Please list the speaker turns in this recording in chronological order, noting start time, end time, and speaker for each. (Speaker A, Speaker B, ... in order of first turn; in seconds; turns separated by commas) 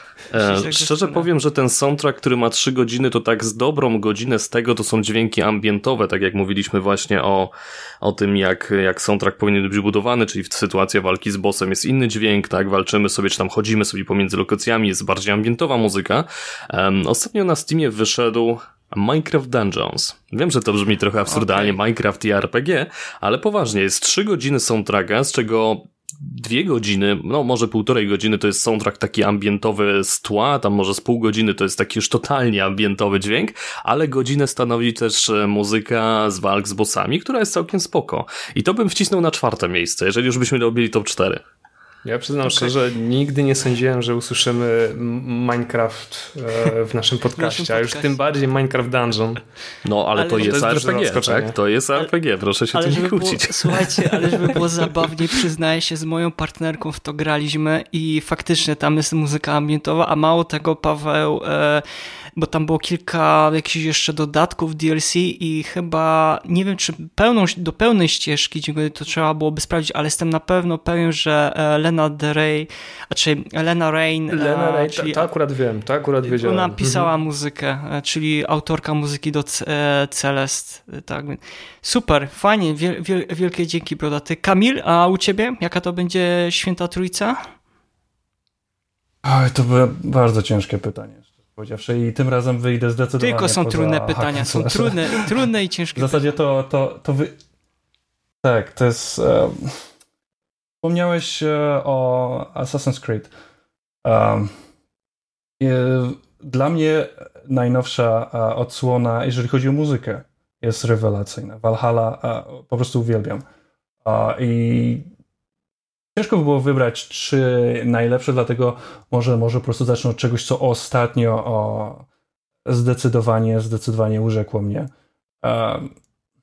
Speaker A: 0.3-41.4, Speaker B: 0.3-1.3, Speaker B: 21.3-21.8, Speaker C: 42.0-49.4, Speaker B: 42.5-42.7, Speaker B: 47.4-48.2, Speaker A: 49.8-54.6, Speaker B: 50.1-50.6, Speaker C: 50.3-51.5, Speaker B: 52.7-61.8, Speaker B: 62.4-75.3, Speaker C: 74.3-77.1, Speaker B: 76.2-87.4, Speaker D: 89.2-95.4, Speaker B: 93.2-96.3, Speaker D: 95.9-97.3, Speaker D: 98.4-99.8, Speaker D: 100.8-103.3, Speaker D: 104.0-104.5, Speaker D: 105.6-113.4, Speaker D: 114.0-115.1, Speaker D: 116.1-122.0, Speaker D: 122.6-124.9, Speaker D: 125.4-125.9